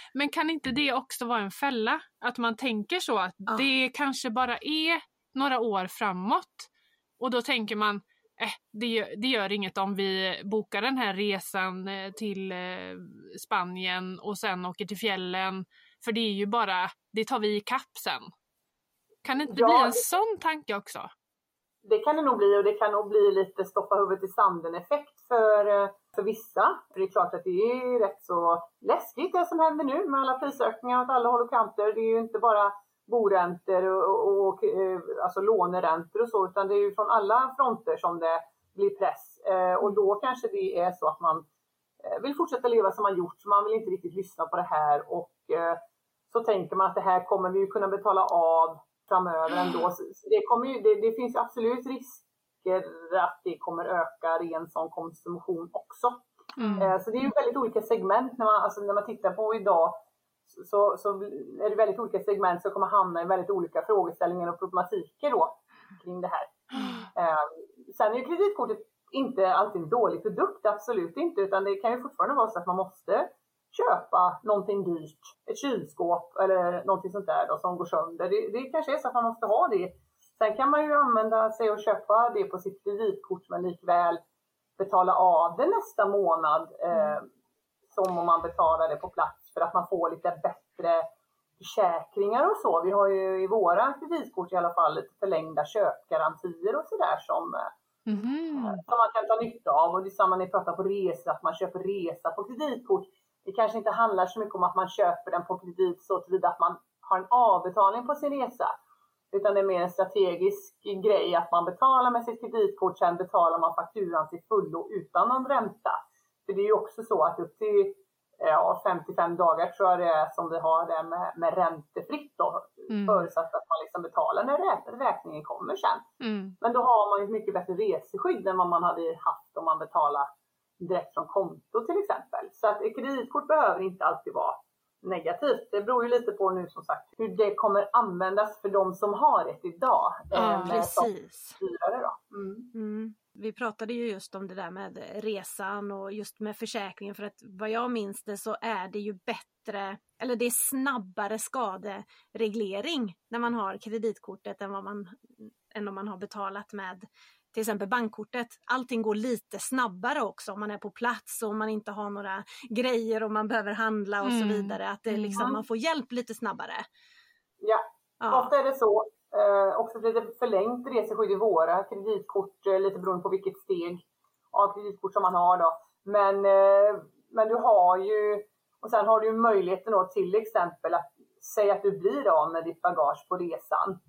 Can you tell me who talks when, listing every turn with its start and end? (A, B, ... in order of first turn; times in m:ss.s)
0:00.1-0:18.3 A
0:19.2-0:21.1 A
0:19.5-0:20.1 B
0:21.8-0:41.4 B
0:42.0-0:45.8 B
0:46.3-0:56.2 B
0:56.6-0:56.9 A
0:56.8-1:00.0 B
1:00.5-1:24.2 B
1:06.7-1:07.1 A
1:24.8-1:27.2 B
1:27.9-1:31.1 B
1:31.6-1:37.7 B
1:38.1-1:38.8 A
1:38.6-1:48.7 B
1:49.3-2:06.0 B
2:02.9-2:03.3 A
2:06.2-2:06.6 A
2:06.6-2:10.3 B
2:10.8-2:22.7 B
2:20.3-2:21.6 C
2:20.4-2:20.8 A
2:22.7-2:46.8 C
2:44.2-2:45.4 A
2:47.6-3:04.0 B
2:48.2-2:48.5 C